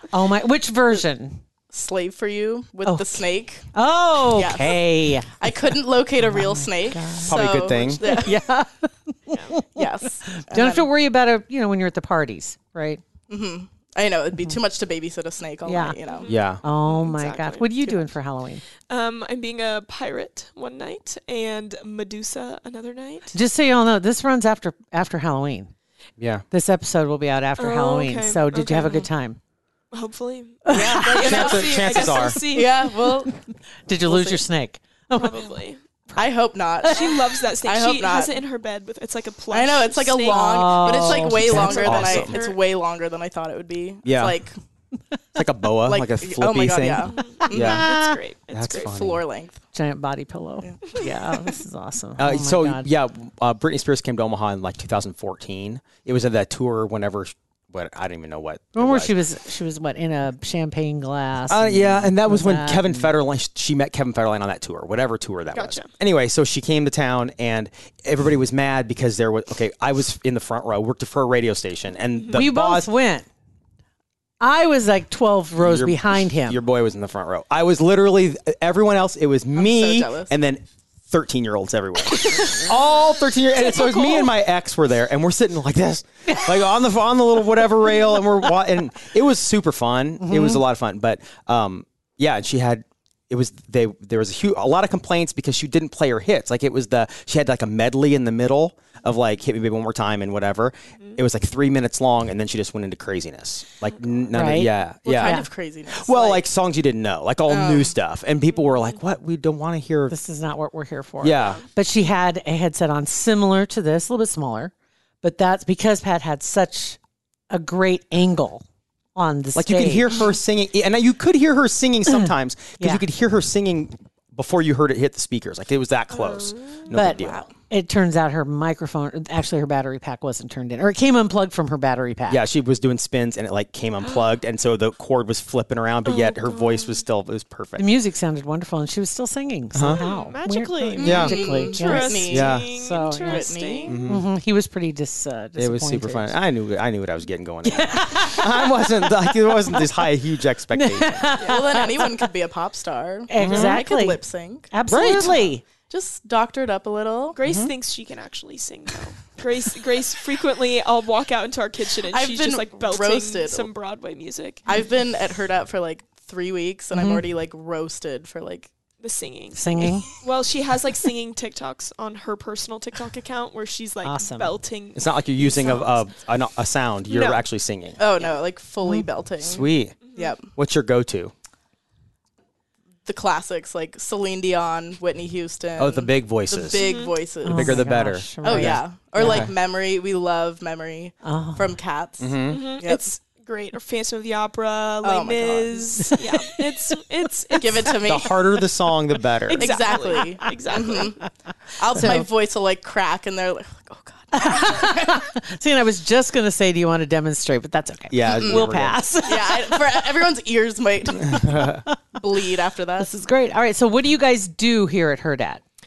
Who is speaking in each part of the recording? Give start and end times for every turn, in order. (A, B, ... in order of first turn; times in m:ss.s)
0:00.1-0:01.4 A
0:01.7-0:03.6 B
0:02.8-0:05.4 A
0:04.3-0:08.4 B
0:06.2-0:07.4 A
0:07.2-0:08.0 C
0:08.0-0:13.0 A
0:09.3-0:09.6 D
0:09.8-0:10.9 B
0:13.3-0:16.3 B
0:15.7-0:16.0 A
0:16.0-0:17.8 D
0:16.3-0:16.6 C
0:16.6-0:18.6 A
0:17.8-0:18.1 B
0:18.9-0:23.4 D
0:23.3-0:25.7 A
0:26.2-0:26.4 C
0:26.5-0:29.4 A
0:27.6-0:29.1 D
0:29.9-0:32.9 D
0:30.6-0:31.4 A
0:30.8-0:33.5 B
0:31.1-0:32.4 C
0:33.9-0:35.5 A
0:34.1-0:34.4 B
0:35.1-0:35.8 D
0:36.2-0:38.4 B
0:36.9-0:42.6 D
0:39.5-0:44.6 B
0:40.3-0:41.8 A
0:41.5-0:42.4 C
0:44.0-0:44.4 C
0:45.4-0:47.9 C
0:45.9-0:47.8 B
0:47.1-0:49.0 D
0:47.6-0:48.2 A
0:48.5-0:49.2 C
0:48.8-0:49.6 B
0:49.7-0:52.9 A
0:50.6-0:51.5 B
0:52.2-0:59.2 C
0:58.8-1:03.1 A
1:01.5-1:12.9 C
1:05.5-1:05.9 D
1:12.3-1:13.3 A
1:14.4-1:16.6 A
1:15.6-1:45.4 C
1:19.6-1:20.3 B
1:23.6-1:24.3 D
1:30.2-1:30.6 A
1:44.3-1:45.5 A
1:45.0-1:46.4 B
1:45.9-1:50.2 C
1:47.5-1:47.9 B
1:50.1-1:57.0 A
1:51.2-1:51.6 C
1:57.5-1:58.6 A
1:59.2-2:00.1 A
1:59.6-2:07.5 C
2:06.1-2:06.9 D
2:06.9-2:12.4 A
2:07.2-2:07.5 B
2:12.3-2:17.9 C
2:16.0-2:17.0 D
2:17.8-2:23.5 A
2:19.7-2:20.0 C
2:19.9-2:24.0 D
2:21.0-2:24.0 B
2:21.0-2:21.4 C
2:22.3-2:22.7 C
2:23.9-2:24.2 C
2:24.1-2:26.4 A
2:25.6-2:31.4 C
2:27.7-2:29.8 A
2:30.7-2:32.2 A
2:31.4-2:37.4 B
2:33.3-2:35.6 A
2:33.4-2:33.8 C
2:34.9-2:35.5 C
2:37.4-2:44.6 D
2:37.4-2:37.7 C
2:42.1-2:43.7 B
2:44.7-2:48.7 B
2:46.9-2:47.2 A
2:49.0-2:56.0 D
2:49.6-2:50.1 A
2:54.0-2:54.5 A
2:55.0-2:58.0 C
2:57.1-2:57.4 D
2:58.0-3:00.5 B
2:59.4-3:00.0 C
3:00.0-3:00.3 D
3:00.6-3:01.3 C
3:03.1-3:07.8 B
3:05.8-3:06.8 C
3:06.8-3:07.2 D
3:07.4-3:09.5 A
3:07.5-3:09.5 C
3:08.4-3:13.0 B
3:11.2-3:11.8 A
3:12.2-3:12.6 C
3:12.5-3:18.0 D
3:15.0-3:16.2 B
3:16.1-3:17.0 A
3:17.6-3:18.4 B
3:18.0-3:19.7 C
3:19.5-3:21.2 D
3:19.5-3:21.2 B
3:21.8-3:25.2 B
3:22.0-3:22.3 A
3:24.3-3:30.2 A
3:28.1-3:29.0 C
3:28.3-3:28.6 B
3:29.2-3:33.1 B
3:31.3-3:31.8 C
3:33.0-3:35.6 A